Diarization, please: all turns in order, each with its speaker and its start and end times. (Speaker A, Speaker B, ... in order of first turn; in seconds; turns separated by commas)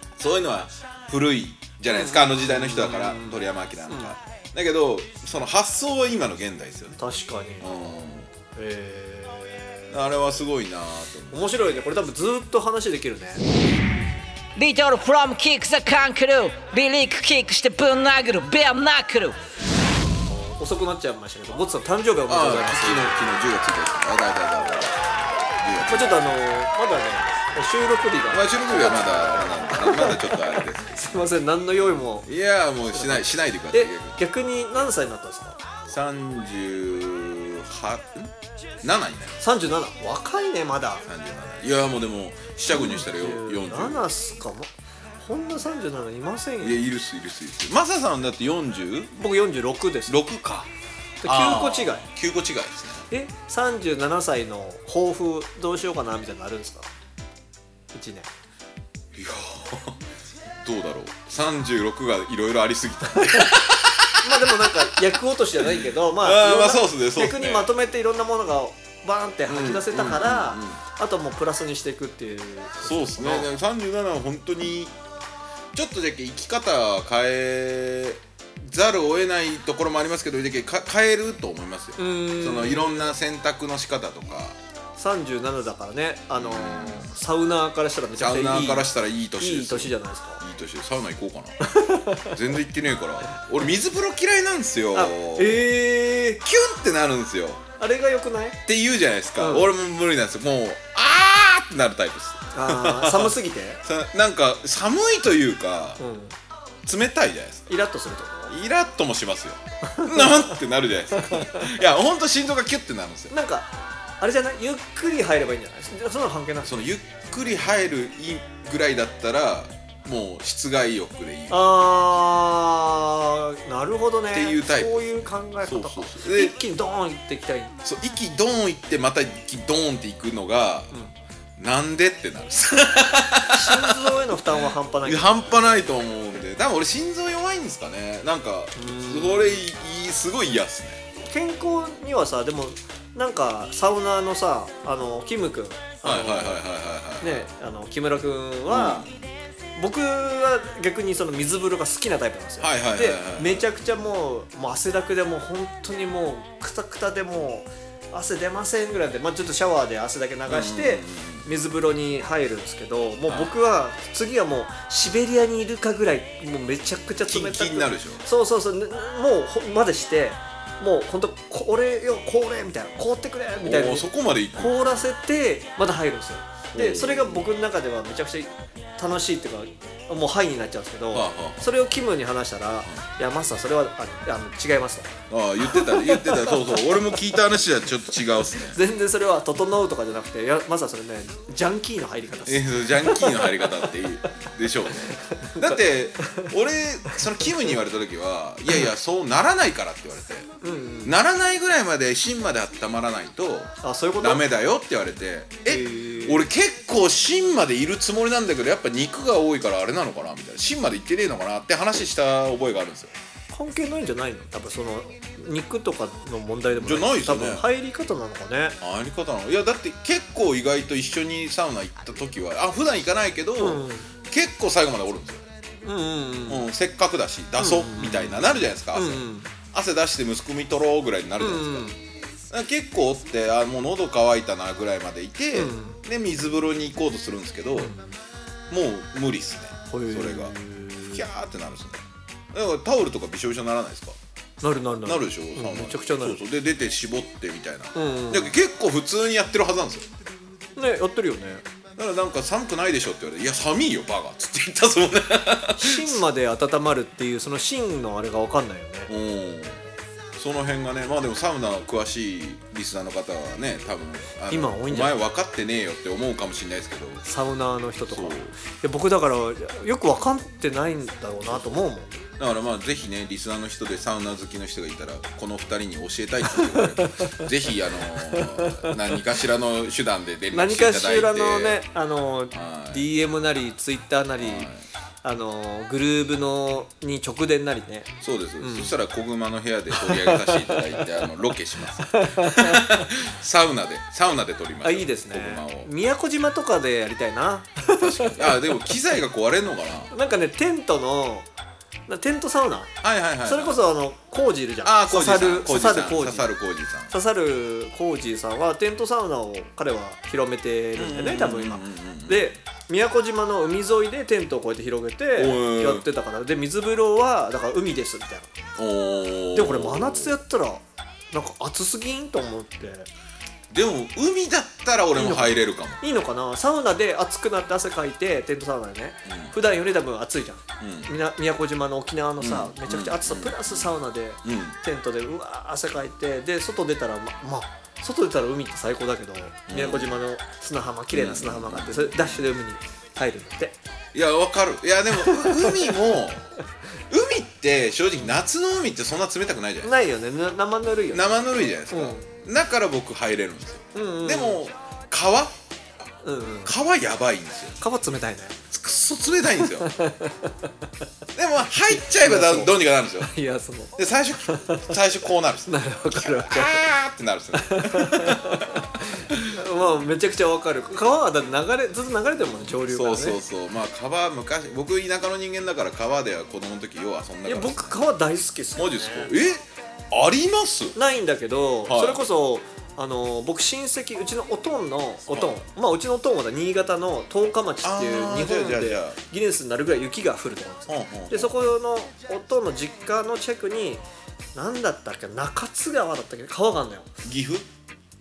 Speaker A: 0.2-7.0, Speaker B: 1.9-4.1, Speaker B: 7.0-7.7, Speaker A: 7.6-8.3, Speaker B: 8.5-9.9, Speaker A: 9.9-11.5, Speaker B: 11.3-13.4, Speaker C: 14.6-19.4, Speaker B: 20.3-23.4, Speaker A: 22.3-26.2, Speaker B: 25.9-32.3, Speaker A: 28.3-31.2, Speaker A: 32.2-34.2, Speaker B: 32.9-35.6, Speaker A: 35.9-39.4, Speaker B: 39.4-41.1, Speaker A: 41.1-44.1, Speaker B: 42.7-46.8, Speaker A: 46.6-49.1, Speaker B: 49.1-50.2, Speaker A: 50.1-50.7, Speaker B: 51.2-52.1, Speaker A: 51.2-53.1, Speaker B: 53.1-56.9, Speaker B: 57.9-58.3, Speaker A: 59.1-60.0, Speaker A: 60.6-64.9, Speaker B: 64.2-73.5, Speaker A: 65.6-67.7, Speaker A: 69.5-70.8, Speaker A: 72.8-74.9, Speaker A: 75.7-84.6, Speaker B: 82.0-83.0, Speaker B: 85.0-90.4, Speaker A: 86.3-87.1, Speaker A: 88.2-91.6, Speaker B: 91.6-92.4, Speaker A: 92.3-95.6, Speaker B: 94.9-96.4, Speaker A: 96.4-97.6, Speaker B: 97.8-98.6, Speaker A: 98.7-106.0, Speaker B: 99.4-99.7, Speaker B: 102.5-103.8, Speaker B: 106.0-106.3, Speaker A: 106.8-107.7, Speaker B: 107.7-108.5, Speaker A: 108.5-113.3, Speaker B: 109.8-110.5, Speaker B: 111.2-111.7, Speaker B: 113.3-116.7, Speaker A: 116.6-121.7, Speaker B: 121.5-127.8, Speaker A: 124.3-126.5, Speaker A: 127.8-130.9, Speaker A: 131.6-141.0, Speaker B: 133.4-135.6, Speaker B: 138.7-139.6, Speaker B: 141.2-146.6, Speaker A: 146.0-147.4, Speaker B: 147.2-149.1, Speaker A: 148.7-149.1, Speaker B: 149.8-187.0, Speaker A: 152.6-153.7, Speaker A: 160.5-161.4, Speaker A: 167.2-168.2, Speaker A: 173.6-174.9, Speaker A: 176.7-177.4, Speaker A: 181.1-181.7, Speaker A: 185.3-188.8, Speaker B: 188.7-193.9, Speaker A: 192.4-200.5, Speaker B: 195.1-196.5, Speaker B: 200.6-201.1, Speaker A: 201.0-213.1, Speaker B: 203.8-204.4, Speaker B: 205.7-206.4, Speaker B: 213.5-218.8, Speaker A: 216.8-217.7, Speaker A: 218.8-225.4, Speaker B: 223.6-224.1, Speaker B: 225.8-226.6, Speaker A: 226.5-231.9, Speaker B: 227.6-229.5, Speaker B: 231.4-232.0, Speaker A: 232.5-237.9, Speaker B: 235.5-236.0, Speaker B: 237.7-238.1, Speaker A: 238.7-240.5, Speaker B: 239.9-241.2, Speaker A: 241.1-244.2, Speaker B: 244.6-246.4, Speaker A: 245.0-250.1, Speaker B: 247.9-248.5, Speaker B: 250.8-251.6, Speaker A: 252.0-256.2, Speaker B: 255.8-259.1, Speaker A: 259.1-259.8, Speaker A: 260.4-267.2, Speaker B: 264.5-265.1, Speaker B: 267.2-272.2, Speaker A: 268.1-268.5, Speaker A: 272.4-281.8, Speaker B: 276.5-277.5, Speaker B: 278.1-278.9, Speaker B: 280.5-284.7, Speaker A: 282.5-283.1, Speaker A: 284.4-284.8, Speaker B: 285.2-289.0, Speaker A: 288.2-295.9, Speaker B: 289.9-291.0, Speaker B: 292.1-293.0, Speaker B: 294.8-298.8, Speaker A: 298.0-300.1, Speaker B: 300.1-301.5, Speaker B: 302.1-306.5, Speaker A: 303.0-303.8, Speaker A: 304.8-307.1, Speaker B: 307.1-318.5, Speaker A: 310.9-312.4, Speaker A: 315.4-316.1, Speaker A: 318.8-320.3, Speaker B: 319.5-323.1, Speaker A: 323.7-326.0, Speaker B: 325.2-343.8, Speaker A: 329.2-329.5, Speaker A: 330.8-331.1, Speaker A: 332.4-333.9, Speaker A: 334.4-334.8, Speaker A: 339.7-340.1, Speaker A: 341.1-342.5, Speaker A: 344.1-346.5, Speaker B: 345.2-345.9, Speaker A: 347.1-349.9, Speaker B: 349.8-352.3, Speaker A: 351.1-355.6, Speaker B: 353.9-354.6, Speaker B: 356.2-356.7, Speaker A: 356.6-357.8, Speaker B: 357.8-358.6, Speaker A: 358.7-359.9, Speaker B: 359.8-360.7, Speaker A: 361.4-363.3, Speaker B: 361.9-364.9, Speaker A: 363.9-369.5, Speaker B: 365.7-366.8, Speaker B: 367.5-373.4, Speaker A: 372.9-378.0, Speaker B: 377.4-379.3, Speaker A: 378.8-380.9, Speaker B: 380.9-394.0, Speaker A: 381.9-382.2, Speaker A: 385.3-385.6, Speaker A: 387.8-389.2, Speaker A: 390.9-391.7, Speaker B: 394.5-397.1, Speaker A: 397.2-397.7